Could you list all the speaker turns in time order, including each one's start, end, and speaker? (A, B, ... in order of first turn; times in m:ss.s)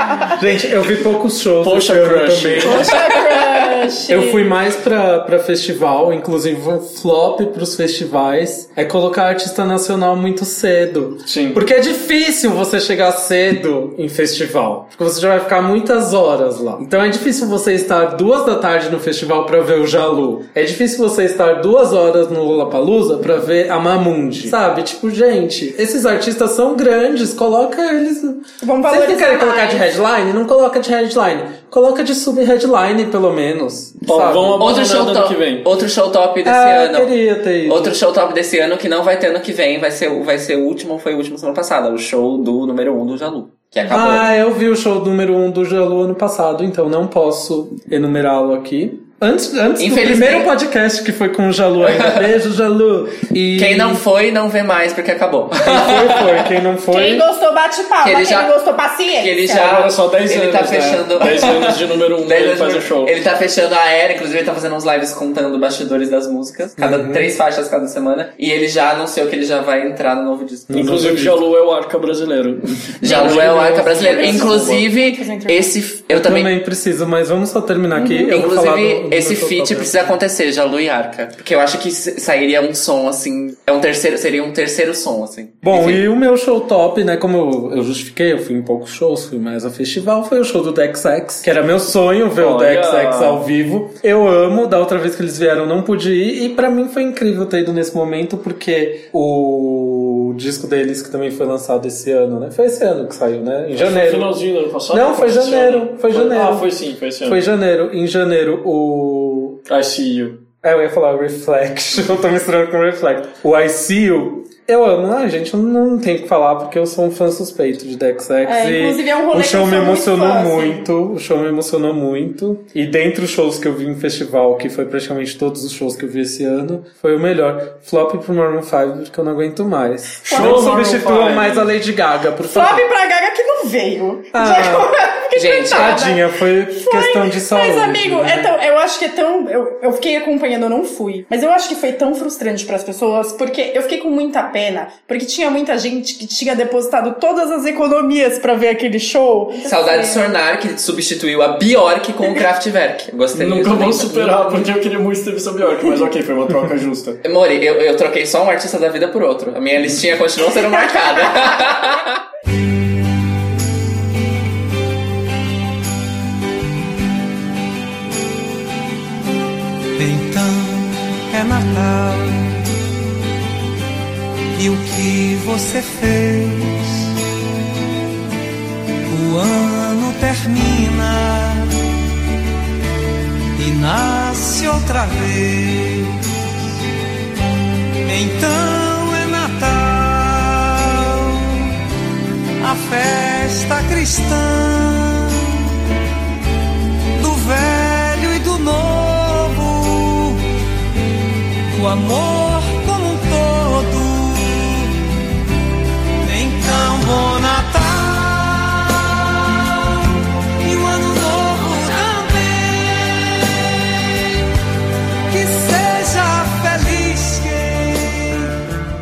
0:00.4-0:03.1 A
0:01.6-0:03.0 B
0:02.6-0:04.5 C
0:04.1-0:34.7 A
0:11.3-0:11.6 B
0:28.6-0:29.9 C
0:34.1-0:35.7 B
0:34.6-0:37.1 D
0:36.4-0:38.0 A
0:37.7-0:44.3 D
0:43.9-0:54.0 A
0:49.8-0:50.5 D
0:51.8-0:52.2 D
0:53.6-0:56.4 D
0:55.6-0:57.3 A
0:56.9-0:59.7 C
0:58.0-0:58.5 D
0:59.2-1:11.2 D
0:59.5-1:03.2 B
1:06.8-1:07.3 A
1:10.7-1:11.4 A
1:10.7-1:14.9 B
1:13.0-1:16.5 D
1:13.1-1:13.4 C
1:13.9-1:15.7 C
1:16.1-1:20.0 A
1:18.0-1:18.4 C
1:18.3-1:26.0 D
1:25.6-1:44.3 A
1:32.4-1:33.4 B
1:43.7-1:47.4 B
1:44.9-1:46.7 A
1:47.2-1:49.6 A
1:49.7-1:50.4 B
1:50.6-2:12.9 A
1:58.4-2:00.8 C
2:10.2-2:11.7 B
2:12.4-2:30.3 C
2:14.3-2:14.9 A
2:15.4-2:16.0 D
2:15.6-2:18.5 A
2:29.6-2:34.6 D
2:33.3-2:37.2 B
2:37.2-2:42.2 D
2:50.0-2:52.6 E
2:54.6-2:57.0 E
2:59.1-3:01.8 E
3:03.6-3:06.2 E
3:08.0-3:11.6 E
3:12.6-3:15.4 E
3:17.2-3:20.4 E
3:21.7-3:24.9 E
3:26.2-3:29.6 E
3:30.6-3:33.5 E
3:35.3-3:38.4 E